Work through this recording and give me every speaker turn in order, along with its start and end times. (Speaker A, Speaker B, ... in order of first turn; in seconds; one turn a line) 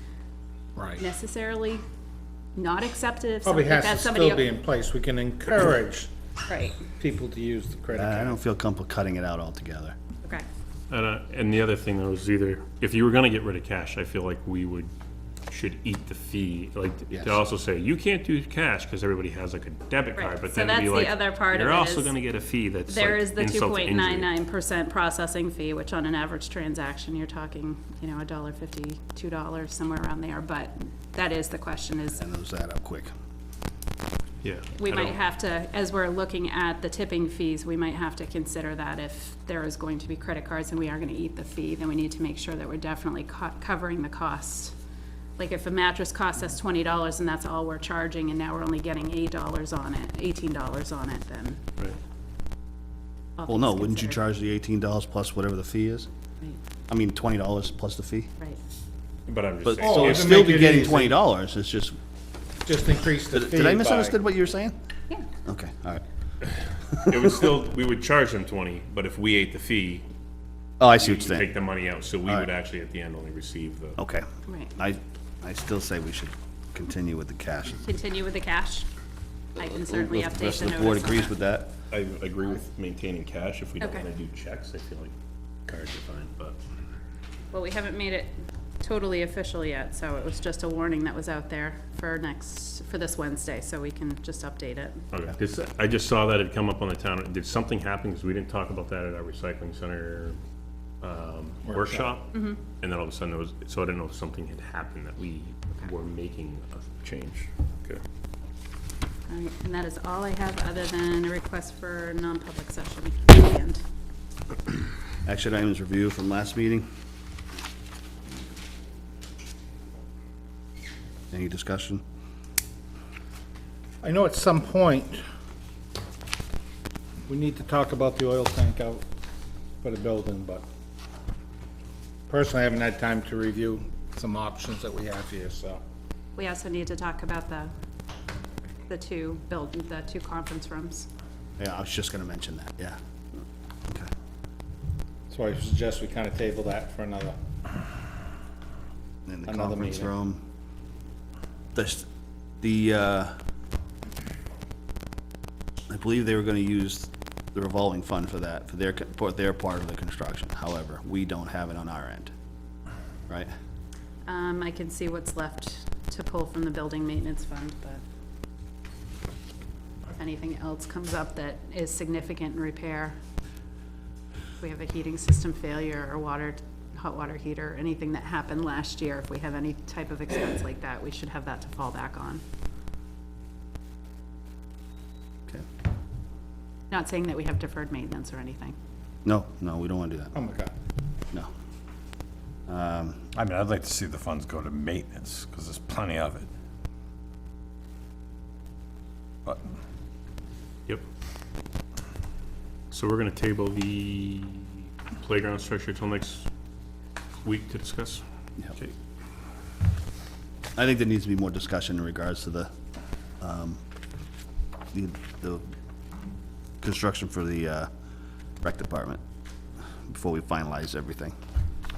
Speaker A: 0.8-1.0
Speaker B: 0.9-1.8
Speaker B: 2.5-4.4
Speaker A: 3.4-6.1
Speaker B: 6.5-6.8
Speaker A: 7.0-8.4
Speaker C: 7.9-9.9
Speaker D: 10.9-14.9
Speaker D: 15.5-24.3
Speaker C: 17.1-17.4
Speaker B: 20.1-22.1
Speaker B: 22.9-32.2
Speaker C: 32.1-33.1
Speaker D: 34.4-35.2
Speaker B: 34.8-44.7
Speaker B: 45.4-51.6
Speaker B: 53.4-54.2
Speaker C: 53.5-56.1
Speaker C: 56.9-58.3
Speaker D: 59.3-60.7
Speaker C: 59.6-62.0
Speaker A: 59.8-61.2
Speaker A: 62.6-64.2
Speaker C: 63.3-64.8
Speaker C: 65.4-66.0
Speaker D: 66.5-70.0
Speaker C: 70.8-71.5
Speaker D: 70.9-74.0
Speaker C: 74.0-74.2
Speaker B: 74.5-74.7
Speaker C: 74.8-77.8
Speaker B: 77.8-78.9
Speaker B: 79.6-81.3
Speaker C: 79.6-81.7
Speaker D: 81.9-85.1
Speaker B: 83.8-84.1
Speaker D: 85.7-86.6
Speaker B: 87.5-95.0
Speaker D: 95.1-100.4
Speaker D: 101.0-108.0
Speaker A: 101.7-102.1
Speaker B: 102.3-102.6
Speaker B: 109.3-113.8
Speaker C: 115.2-116.9
Speaker C: 121.3-122.0
Speaker A: 124.0-125.2
Speaker A: 127.3-129.0
Speaker A: 129.8-130.7
Speaker A: 132.3-135.8
Speaker B: 136.3-137.7
Speaker B: 138.9-141.1
Speaker C: 141.6-143.0
Speaker A: 145.3-147.4
Speaker C: 149.2-150.4
Speaker A: 149.5-150.1
Speaker C: 151.7-152.0
Speaker C: 152.6-153.3
Speaker C: 155.9-162.3
Speaker B: 164.3-168.0
Speaker B: 170.2-173.2
Speaker B: 174.6-182.4
Speaker B: 186.9-188.8
Speaker C: 189.2-190.3
Speaker A: 190.3-190.7
Speaker C: 192.7-193.2
Speaker E: 193.3-196.5
Speaker D: 202.9-206.5
Speaker D: 207.4-208.2
Speaker C: 210.8-212.7
Speaker C: 213.4-213.8
Speaker C: 214.9-215.6
Speaker C: 216.8-217.9
Speaker C: 218.6-219.2
Speaker C: 220.1-221.3